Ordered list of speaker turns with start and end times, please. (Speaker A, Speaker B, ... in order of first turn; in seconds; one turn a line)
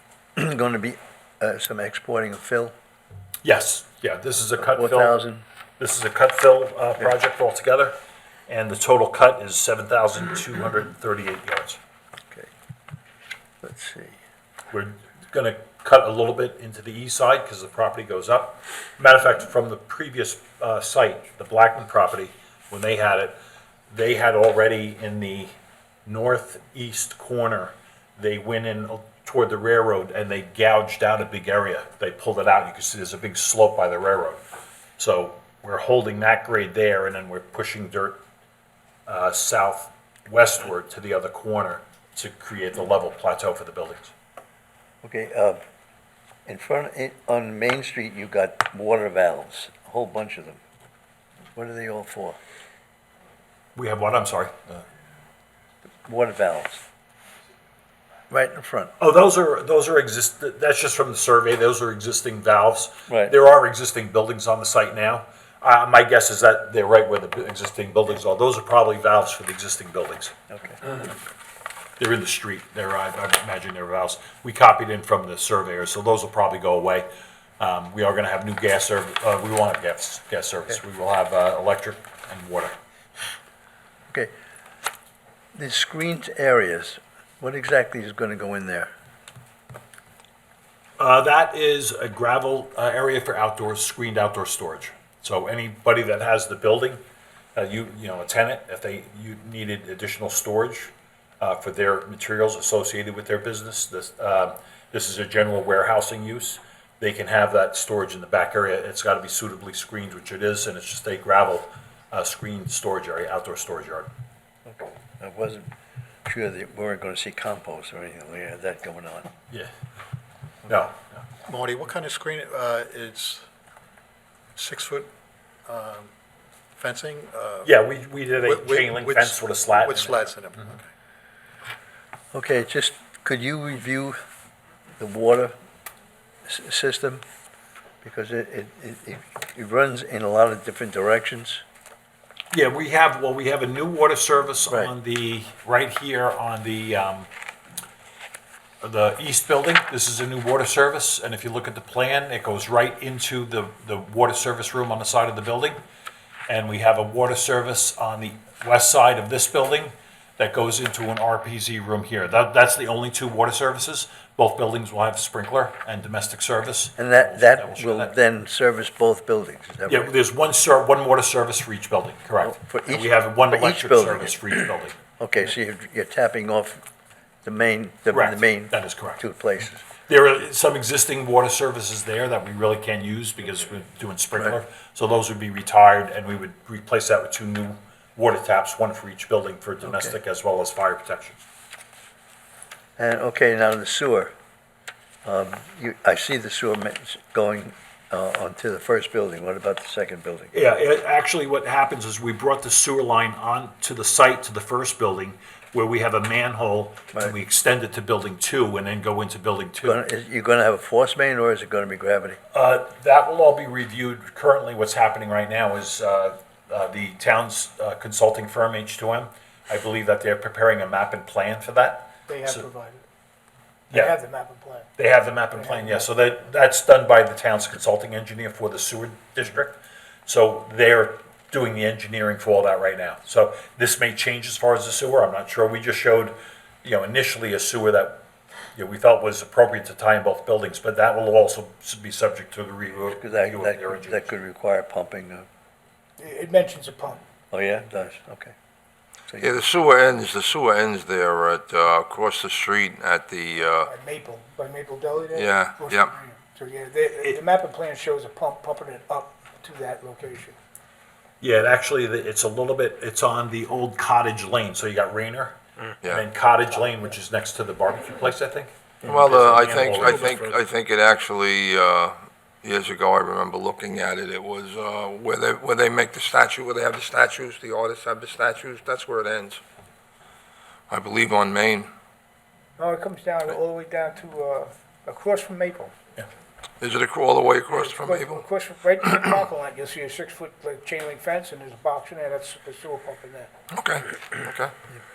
Speaker A: 0.3-2.7
Speaker B: 3.4-5.2
Speaker A: 4.6-5.4
Speaker B: 5.8-8.0
Speaker B: 8.5-11.8
Speaker A: 13.6-14.2
Speaker B: 14.7-23.4
Speaker B: 23.9-25.5
Speaker B: 26.1-34.4
Speaker B: 35.0-38.2
Speaker B: 39.1-44.1
Speaker A: 45.0-45.6
Speaker A: 46.5-50.6
Speaker A: 51.5-52.4
Speaker B: 53.7-54.8
Speaker A: 56.0-56.8
Speaker A: 58.3-58.9
Speaker B: 59.0-70.3
Speaker A: 63.1-63.3
Speaker A: 70.5-70.8
Speaker B: 72.0-77.1
Speaker B: 77.6-82.7
Speaker A: 85.5-88.9
Speaker B: 91.0-97.0
Speaker B: 97.5-114.1
Speaker A: 114.7-115.7
Speaker A: 116.2-119.3
Speaker B: 120.7-121.2
Speaker C: 121.4-123.4
Speaker C: 124.5-125.1
Speaker C: 125.7-126.1
Speaker C: 126.8-127.7
Speaker B: 127.6-130.3
Speaker C: 128.4-130.8
Speaker A: 132.3-134.2
Speaker A: 135.0-135.5
Speaker A: 136.4-137.2
Speaker A: 138.0-141.6
Speaker B: 142.5-147.3
Speaker B: 148.8-155.8
Speaker B: 156.5-168.1
Speaker A: 167.0-170.1
Speaker B: 169.9-175.0
Speaker A: 172.4-174.6
Speaker A: 175.2-176.8
Speaker A: 177.4-179.9
Speaker B: 178.1-179.2
Speaker B: 180.1-191.4
Speaker A: 189.8-190.1
Speaker A: 193.0-194.3
Speaker A: 195.2-200.5
Speaker B: 200.5-210.0
Speaker A: 209.8-212.4
Speaker B: 212.5-222.7
Speaker D: 222.3-223.0
Speaker D: 223.9-224.9
Speaker B: 225.0-238.2
Speaker D: 225.5-226.2
Speaker B: 238.7-244.3
Speaker A: 243.1-245.5
Speaker D: 246.2-247.2
Speaker A: 247.5-248.5
Speaker A: 249.3-249.6
Speaker E: 249.4-253.9
Speaker D: 253.8-260.6
Speaker E: 255.3-256.1
Speaker B: 261.4-270.6
Speaker E: 269.1-279.6
Speaker E: 280.9-281.9
Speaker D: 282.8-285.9
Speaker E: 286.8-288.4
Speaker D: 287.7-293.5
Speaker E: 293.7-294.7